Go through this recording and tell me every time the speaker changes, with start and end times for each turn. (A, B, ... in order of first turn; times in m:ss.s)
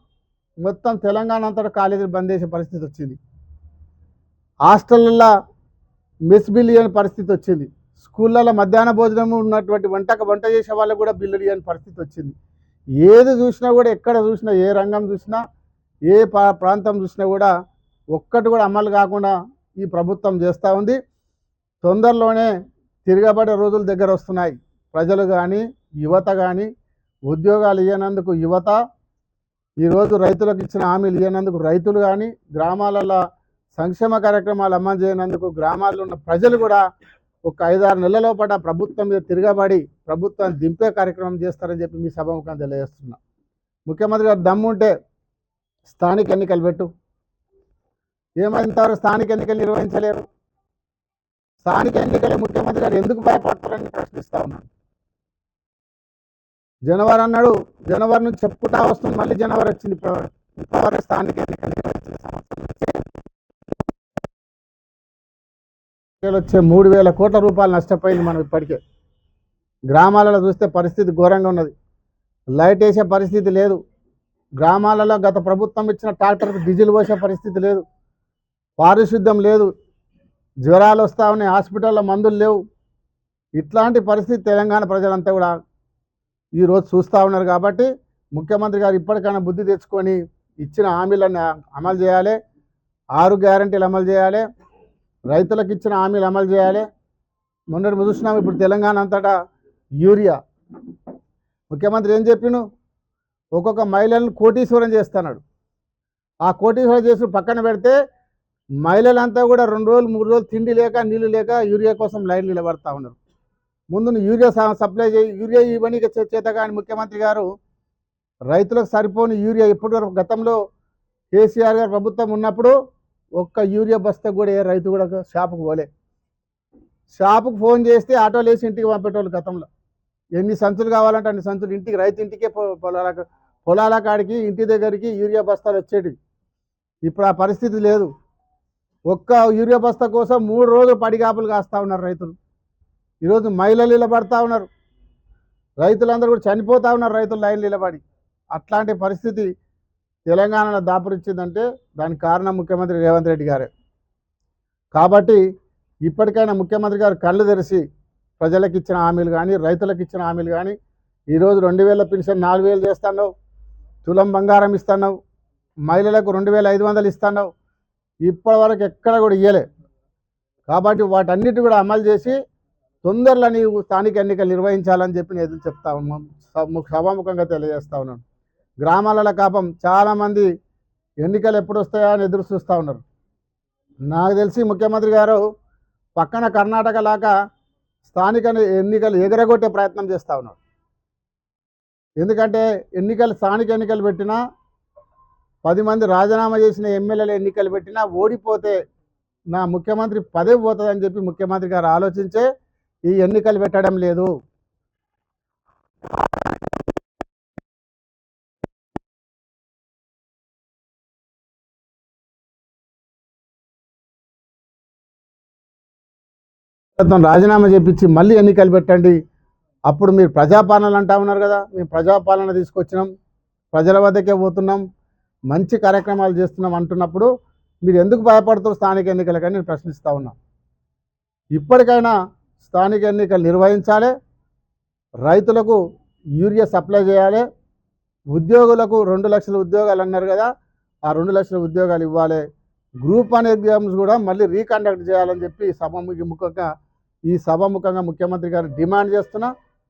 0:00.6-0:03.2 A
0:04.6-0:05.3 A
0:06.3-0:12.3 A
0:13.0-0:15.4 A
0:16.1-0:17.5 A
0:18.1-0:21.0 A
0:21.8-0:22.5 A
0:23.0-0:26.7 A
0:27.3-0:28.8 A
0:29.8-0:33.2 A
0:33.7-0:36.8 A
0:37.4-0:43.2 A
0:43.9-0:44.9 A
0:45.9-0:46.9 A
0:48.4-0:50.2 A
0:51.6-0:54.6 A
0:56.9-1:03.0 A
1:06.2-1:08.8 A
1:09.9-1:11.7 A
1:12.6-1:13.8 A
1:14.6-1:17.8 A
1:18.8-1:19.7 A
1:20.6-1:22.6 A
1:23.6-1:25.5 A
1:26.6-1:32.4 A
1:33.2-1:34.4 A
1:35.3-1:36.8 A
1:37.7-1:39.3 A
1:40.0-1:40.4 A
1:41.7-1:42.6 A
1:43.6-1:45.4 A
1:46.4-1:47.9 A
1:48.8-1:53.2 A
1:53.9-1:57.4 A
1:58.5-2:00.6 A
2:01.3-2:02.7 A
2:03.4-2:05.9 A
2:07.1-2:09.6 A
2:10.4-2:16.1 A
2:17.0-2:18.1 A
2:19.1-2:22.3 A
2:23.2-2:24.7 A
2:25.8-2:28.0 A
2:28.5-2:29.4 A
2:30.3-2:33.7 A
2:34.9-2:35.4 A
2:36.0-2:37.8 A
2:38.4-2:40.7 A
2:41.3-2:43.3 A
2:44.0-2:45.1 A
2:45.9-2:47.5 A
2:48.2-2:49.6 A
2:50.7-2:52.3 A
2:53.0-2:58.2 A
2:58.8-3:00.5 A
3:01.2-3:03.0 A
3:04.1-3:05.4 A
3:06.2-3:07.3 A
3:08.0-3:10.6 A
3:12.2-3:14.4 A
3:15.6-3:18.8 A
3:19.5-3:22.4 A
3:23.1-3:24.3 A
3:37.0-3:39.1 A
3:39.9-3:43.1 A
3:43.7-3:44.8 A
3:45.5-3:47.3 A
3:47.8-3:50.4 A
3:51.6-3:54.1 A
3:55.2-3:55.8 A
3:56.4-3:57.4 A
3:58.3-4:00.5 A
4:01.1-4:02.4 A
4:03.0-4:06.6 A
4:07.3-4:09.5 A